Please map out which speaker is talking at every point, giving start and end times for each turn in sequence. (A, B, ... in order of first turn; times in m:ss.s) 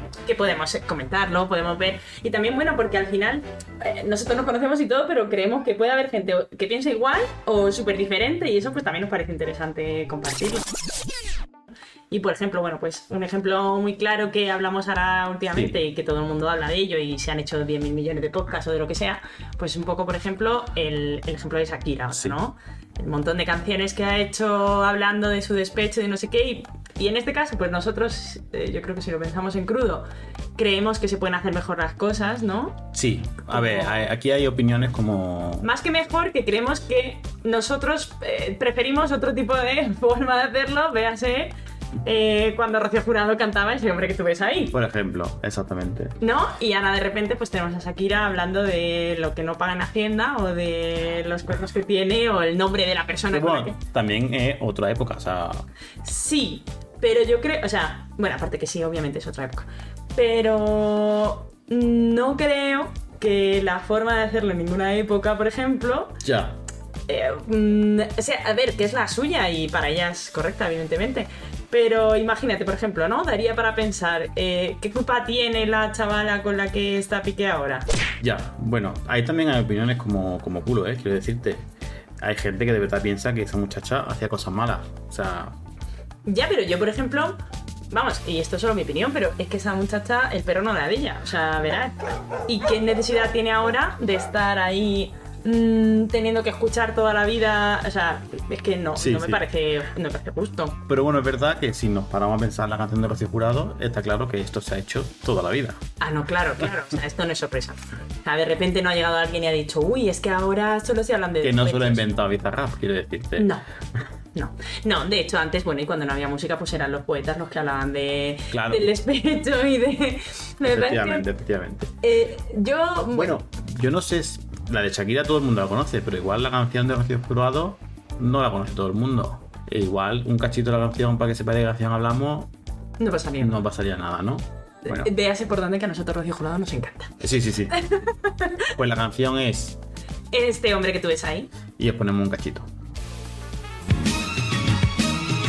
0:00.3-0:10.7 A
0:12.1-0:30.1 A
0:15.5-0:15.8 B
0:30.6-0:32.9 A
0:32.9-0:35.7 B
0:33.5-0:34.0 A
0:35.6-0:41.5 A
0:42.0-0:44.7 A
0:44.7-0:46.2 B
0:46.2-0:53.8 A
0:53.3-0:55.7 B
0:56.0-1:06.2 A
1:06.2-1:06.6 B
1:07.1-1:17.9 A
1:18.2-1:21.7 B
1:22.2-1:25.6 B
1:26.2-1:27.4 A
1:27.9-1:40.8 A
1:39.0-1:39.4 B
1:40.9-1:45.8 B
1:46.0-1:52.1 A
1:51.4-1:53.5 B
1:53.4-1:53.7 A
1:54.3-2:01.3 A
1:58.5-1:58.9 B
2:00.6-2:01.9 B
2:02.0-2:03.4 A
2:03.2-2:12.5 B
2:13.0-2:13.6 A
2:13.4-2:15.1 B
2:14.8-2:17.1 A
2:17.2-2:17.7 B
2:17.7-2:18.7 A
2:18.8-2:19.8 B
2:20.3-2:21.5 A
2:21.8-2:22.7 B